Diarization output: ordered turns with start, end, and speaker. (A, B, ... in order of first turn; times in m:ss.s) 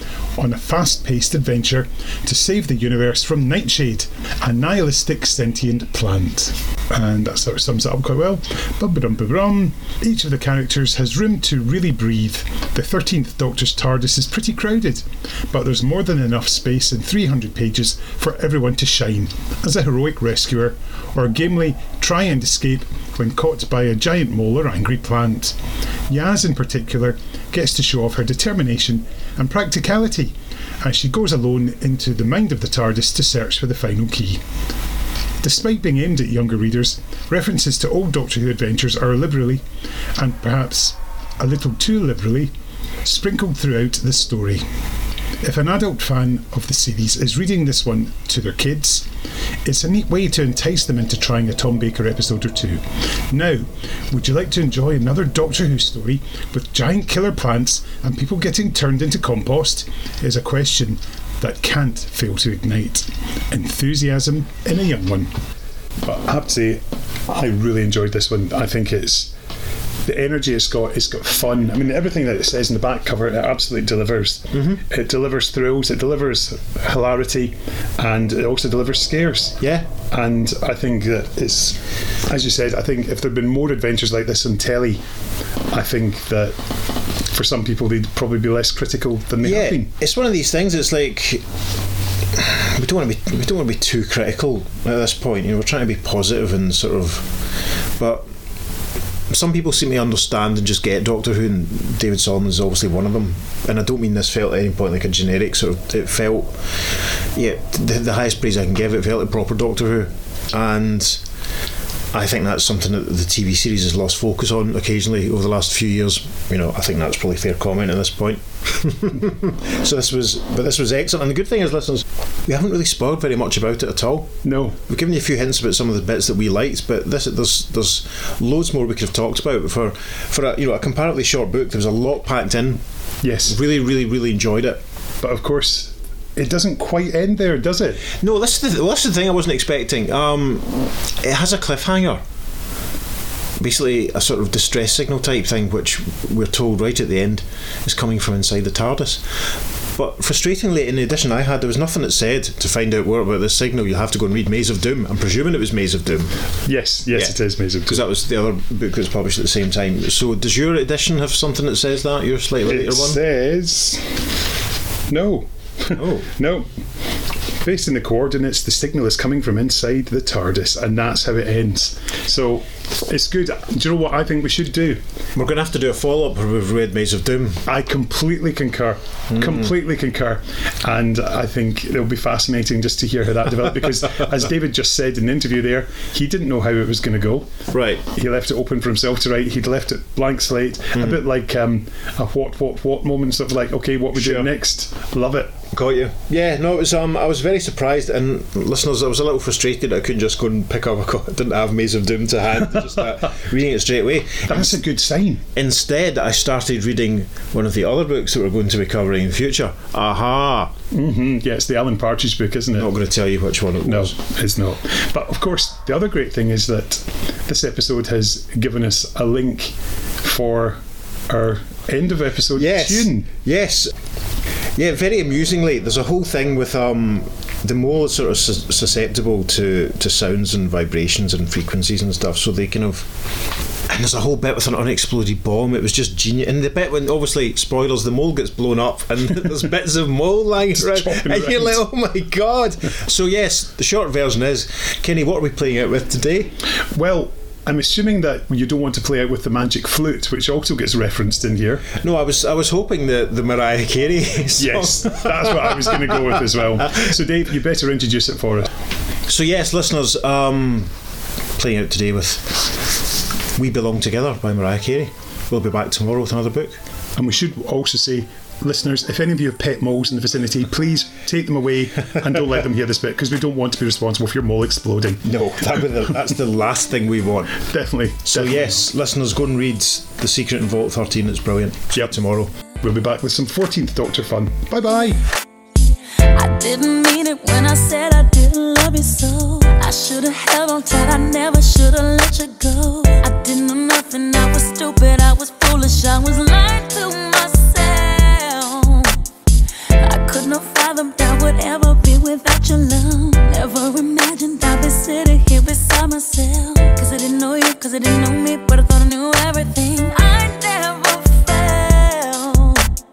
0:00.4-0:25.6 A
0:26.1-0:34.4 A
0:35.4-0:39.6 A
0:40.2-0:42.5 A
0:43.0-0:44.6 A
0:45.4-0:49.1 A
0:49.6-1:05.3 A
1:06.0-1:09.3 A
1:10.0-1:19.6 A
1:14.5-1:14.8 B
1:19.6-1:19.9 B
1:20.1-1:25.0 A
1:25.7-1:26.6 A
1:27.2-1:29.9 A
1:29.4-1:31.4 B
1:32.3-1:37.4 B
1:38.0-1:38.3 B
1:39.3-1:51.2 B
1:52.1-2:12.8 B
2:04.4-2:04.8 A
2:13.2-2:13.6 A
2:13.5-2:14.8 B
2:15.2-2:18.0 A
2:18.1-2:22.2 B
2:23.6-2:36.4 B
2:36.6-2:38.0 A
2:37.8-2:43.2 B
2:42.6-2:44.3 A
2:45.1-2:55.0 A
2:46.0-2:46.3 B
2:55.4-2:57.6 B
2:57.7-3:07.5 A
2:59.3-2:59.7 B
3:07.7-3:08.0 B
3:08.1-3:15.6 A
3:10.9-3:11.2 B
3:14.1-3:14.5 B
3:15.7-3:24.7 B
3:24.5-3:25.4 A
3:25.5-3:30.7 B
3:30.9-3:32.9 A
3:32.8-3:34.1 B
3:33.8-3:43.3 A
3:42.6-3:43.9 B
3:44.8-3:53.1 B
3:53.9-4:06.6 B
4:00.8-4:01.8 A
4:06.9-4:11.9 A
4:11.9-4:17.1 B
4:14.6-4:18.7 A
4:19.3-4:21.0 B
4:21.6-4:26.8 B
4:27.2-4:35.2 A
4:35.2-4:37.6 B
4:37.6-4:38.8 A
4:38.2-4:42.5 B
4:42.8-4:45.2 A
4:46.3-4:59.2 C
5:00.0-5:12.9 C